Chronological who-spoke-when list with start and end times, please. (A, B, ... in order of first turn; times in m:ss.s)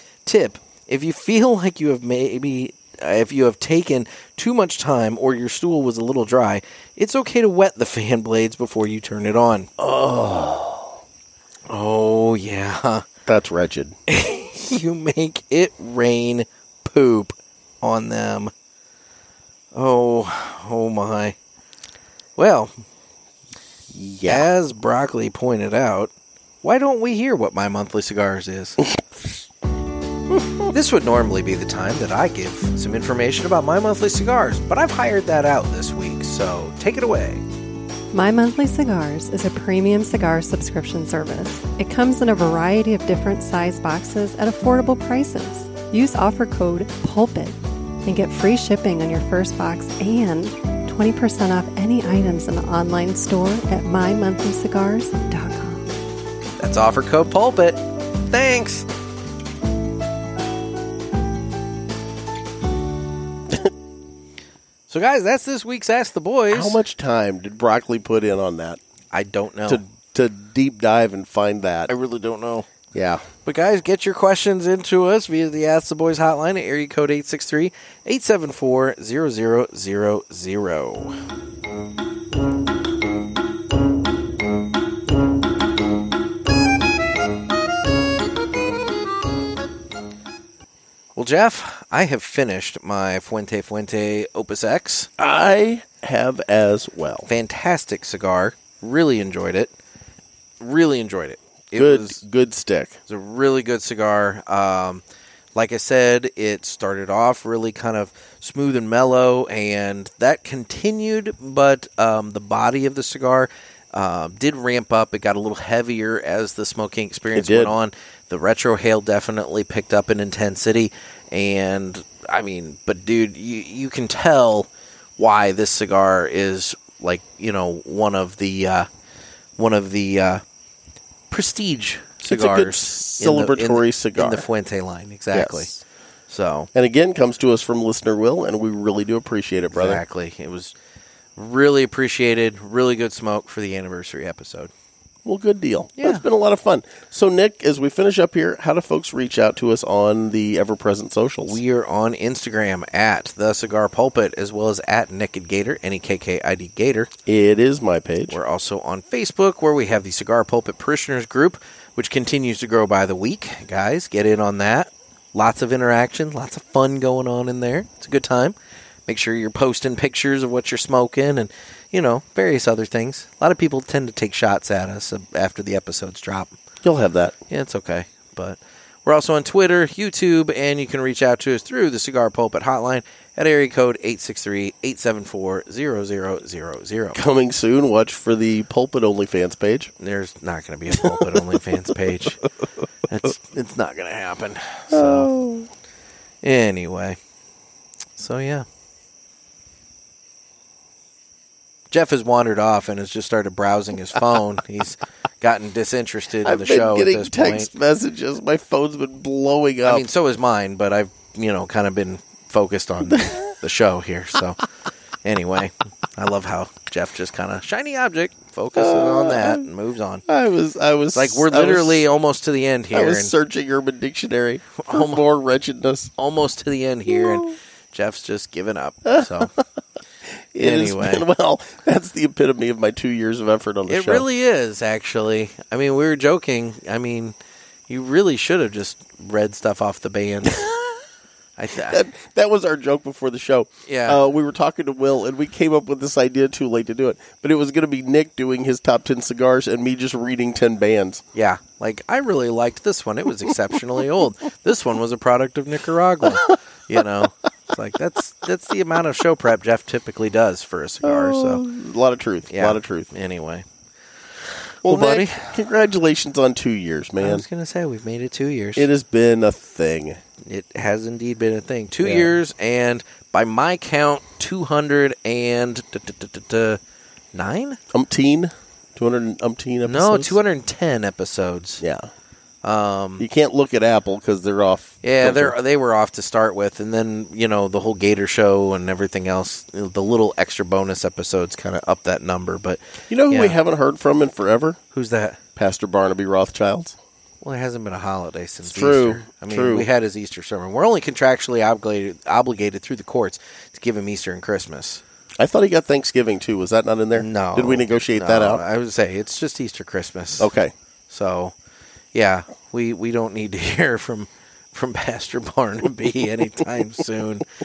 0:00.3-0:09.7 A
0:09.8-0:11.0 B
0:11.7-0:13.0 A
0:13.3-0:14.0 B
0:14.1-0:18.5 A
0:19.7-0:21.4 A
0:22.4-0:22.8 A
0:23.9-0:24.5 B
0:24.3-0:26.1 A
0:26.6-0:28.8 A
0:30.7-0:37.4 A
0:38.1-0:55.9 C
0:56.6-0:58.9 A
1:04.9-1:06.8 A
1:06.5-1:08.8 B
1:09.1-1:09.8 A
1:09.7-1:11.9 B
1:11.9-1:12.7 A
1:12.9-1:13.3 B
1:13.4-1:21.2 A
1:31.2-1:35.1 A
1:35.2-1:37.3 B
1:37.3-1:39.7 A
1:40.6-1:42.2 A
1:41.8-1:43.0 B
1:43.1-1:45.0 A
1:45.6-2:08.9 A
1:57.3-1:57.8 B
2:09.6-2:10.4 A
2:11.3-2:16.7 A
2:12.2-2:14.5 B
2:15.3-2:15.8 B
2:16.7-2:20.0 B
2:19.7-2:20.7 A
2:21.4-2:24.7 A
2:25.2-2:31.6 B
2:26.0-2:26.2 A
2:31.5-2:37.1 A
2:37.3-2:38.4 B
2:38.3-2:48.6 A
2:49.1-2:56.6 A
2:56.8-2:57.4 B
2:57.5-3:07.2 A
3:07.2-3:09.9 B
3:10.0-3:12.4 A
3:10.9-3:11.4 B
3:13.1-3:15.3 A
3:14.9-3:15.7 B
3:16.4-3:17.2 A
3:18.2-3:18.7 A
3:21.9-3:27.7 A
3:26.4-3:30.1 B
3:29.8-3:34.6 A
3:33.0-3:33.4 B
3:35.2-3:40.2 A
3:38.8-3:39.7 B
3:40.3-3:42.1 B
3:41.1-3:43.3 A
3:42.9-3:46.1 B
3:44.8-3:45.2 A
3:46.2-3:49.5 A
3:47.1-3:47.5 B
3:49.1-3:49.6 B
3:50.5-3:54.3 B
3:50.6-3:51.3 A
3:53.9-3:57.4 A
3:57.9-4:00.7 A
4:01.6-4:02.0 A
4:01.9-4:11.2 B
4:03.9-4:04.2 A
4:11.4-4:21.6 A
4:21.0-4:23.1 B
4:22.5-4:23.6 A
4:24.8-4:25.6 A
4:24.8-4:27.5 B
4:27.2-4:28.9 A
4:28.8-4:30.2 B
4:30.4-4:36.8 A
4:32.0-4:32.4 B
4:37.3-4:37.8 A
4:37.9-4:40.4 B
4:39.8-4:41.8 A
4:41.8-4:42.1 B
4:42.6-4:43.2 A
4:43.2-4:45.6 B
4:45.0-4:53.6 A
4:53.1-4:54.8 B
4:54.9-4:55.4 A
4:55.6-4:57.0 B
4:57.4-5:05.0 A
4:58.6-4:59.9 B
5:05.4-5:08.6 B
5:07.2-5:10.5 A
5:10.4-5:10.7 B
5:11.1-5:11.5 A
5:12.1-5:17.5 A